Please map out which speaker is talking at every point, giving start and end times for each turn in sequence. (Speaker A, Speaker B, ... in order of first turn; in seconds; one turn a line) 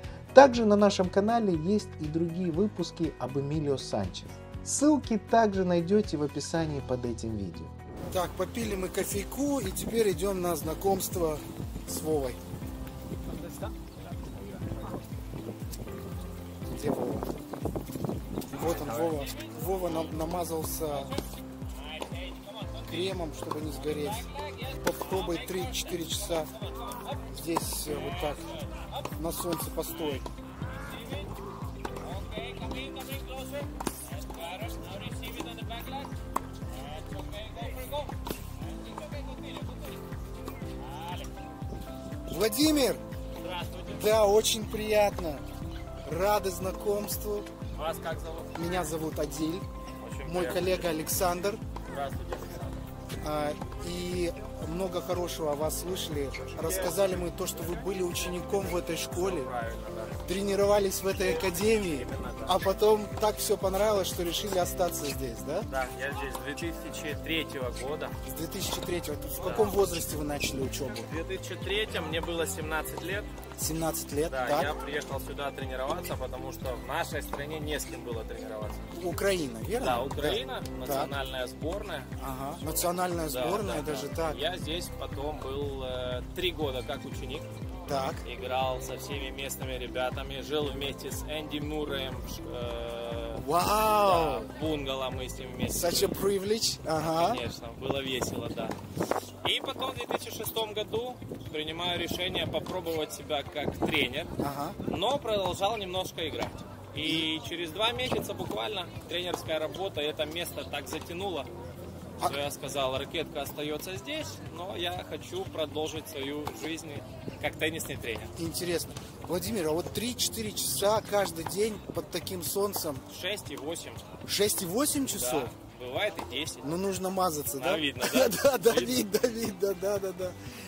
Speaker A: 0.3-7.7
Speaker B: 8.1-12.4
Speaker B: 16.7-17.3
Speaker B: 18.5-21.1
Speaker C: 18.5-20.2
Speaker C: 20.9-27.3
Speaker B: 22.9-26.5
Speaker B: 27.3-28.4
Speaker C: 27.9-29.1
Speaker B: 29.2-30.2
Speaker C: 29.8-31.3
Speaker C: 32.0-36.1
Speaker C: 36.7-40.0
Speaker C: 40.8-41.3
Speaker B: 42.3-43.0
Speaker C: 43.4-44.1
Speaker B: 43.9-45.4
Speaker B: 46.0-47.5
Speaker C: 47.7-48.9
Speaker B: 48.5-49.6
Speaker C: 50.0-51.0
Speaker B: 50.2-51.6
Speaker C: 51.8-52.8
Speaker B: 53.2-59.5
Speaker C: 56.4-60.3
Speaker B: 60.2-65.7
Speaker C: 61.2-62.7
Speaker C: 65.7-68.2
Speaker B: 68.2-71.1
Speaker C: 69.4-69.8
Speaker C: 71.0-73.3
Speaker B: 73.6-74.7
Speaker C: 74.2-78.8
Speaker B: 79.0-81.1
Speaker C: 79.8-87.5
Speaker B: 82.2-84.4
Speaker B: 87.9-88.2
Speaker C: 88.2-96.2
Speaker B: 93.4-94.5
Speaker B: 95.7-97.4
Speaker C: 97.0-98.8
Speaker C: 99.4-104.3
Speaker B: 104.4-104.8
Speaker C: 104.8-111.5
Speaker B: 107.0-107.3
Speaker C: 112.2-118.3
Speaker B: 118.4-123.0
Speaker C: 123.1-124.2
Speaker B: 124.2-125.5
Speaker C: 125.1-126.9
Speaker B: 126.6-130.3
Speaker C: 127.5-129.1